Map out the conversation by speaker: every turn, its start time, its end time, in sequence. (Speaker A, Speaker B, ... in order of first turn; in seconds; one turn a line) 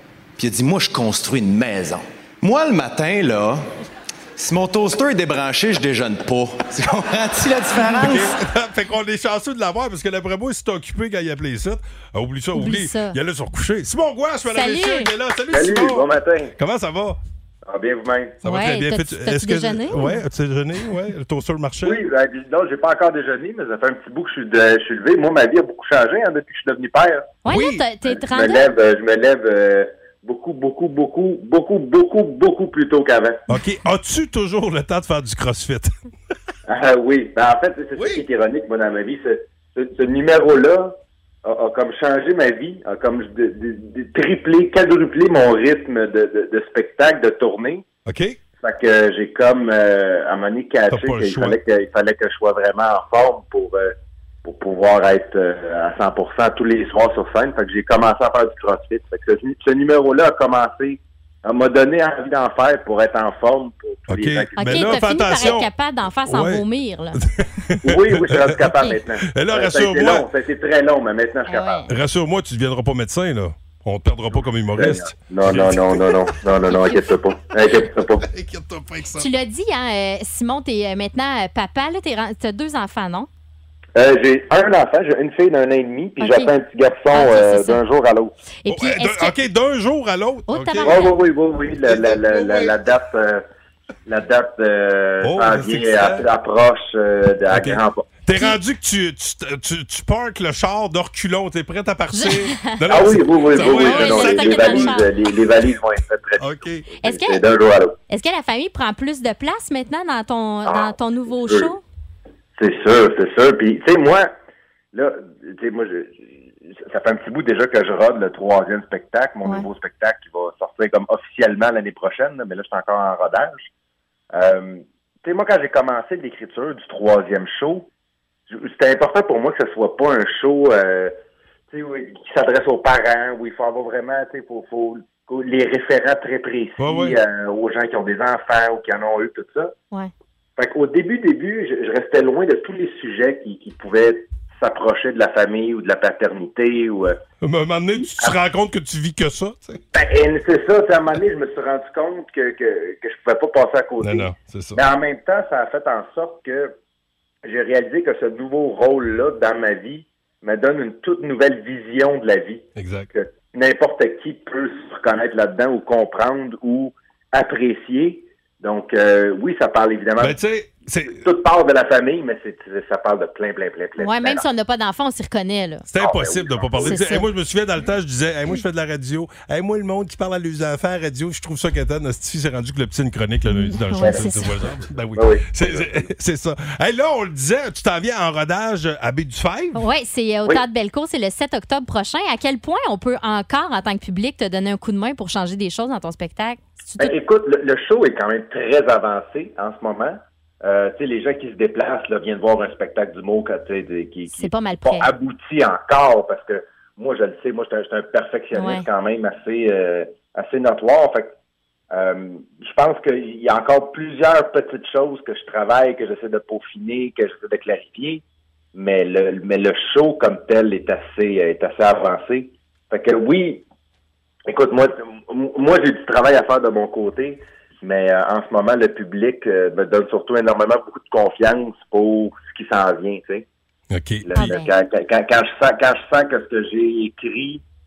Speaker A: 0.4-3.6
Speaker A: 4.4-8.3
Speaker B: 7.8-17.2
Speaker C: 12.5-13.2
Speaker C: 14.5-15.1
Speaker D: 15.5-16.5
Speaker D: 17.6-18.4
Speaker B: 18.4-22.0
Speaker C: 18.4-20.2
Speaker D: 21.8-27.4
Speaker C: 27.4-28.7
Speaker B: 27.5-27.8
Speaker D: 28.1-33.4
Speaker B: 33.5-35.9
Speaker D: 36.7-47.9
Speaker B: 38.0-38.2
Speaker B: 48.0-48.4
Speaker D: 48.6-65.5
Speaker B: 50.9-51.6
Speaker B: 64.1-65.7
Speaker C: 64.6-67.2
Speaker B: 66.3-66.6
Speaker B: 67.2-70.3
Speaker D: 67.8-71.8
Speaker C: 71.5-71.9
Speaker B: 71.9-76.2
Speaker D: 74.7-78.2
Speaker C: 76.7-77.0
Speaker B: 77.6-79.3
Speaker C: 79.2-83.3
Speaker D: 84.0-88.3
Speaker C: 86.2-86.5
Speaker C: 87.1-87.8
Speaker C: 88.6-89.4
Speaker B: 88.7-91.1
Speaker C: 90.5-91.2
Speaker D: 90.8-93.4
Speaker B: 91.8-92.8
Speaker D: 94.1-98.1
Speaker B: 95.2-96.3
Speaker B: 97.5-105.1
Speaker C: 102.1-102.8
Speaker D: 102.9-108.0
Speaker C: 103.5-105.1
Speaker B: 106.4-106.9
Speaker C: 107.0-107.4
Speaker C: 108.1-111.8
Speaker D: 110.7-111.7
Speaker D: 112.6-114.3
Speaker D: 114.9-123.7
Speaker D: 124.3-127.9
Speaker D: 128.5-131.1
Speaker D: 131.7-139.7
Speaker B: 136.8-137.2
Speaker D: 140.6-147.2
Speaker B: 147.4-149.8
Speaker D: 148.0-148.3
Speaker D: 149.9-156.7
Speaker B: 154.0-154.8
Speaker D: 157.4-170.4
Speaker B: 162.8-163.1
Speaker B: 170.2-171.2
Speaker D: 171.0-174.4
Speaker C: 174.0-175.8
Speaker B: 175.9-189.8
Speaker D: 176.0-177.0
Speaker C: 176.8-177.3
Speaker C: 183.5-184.5
Speaker D: 184.0-184.4
Speaker D: 185.2-186.0
Speaker C: 189.7-197.2
Speaker D: 197.0-211.3
Speaker C: 204.3-205.1
Speaker C: 208.5-208.8
Speaker D: 211.9-218.2
Speaker D: 218.7-223.6
Speaker D: 224.5-233.5
Speaker B: 233.9-234.5
Speaker D: 234.2-237.6
Speaker C: 234.3-234.7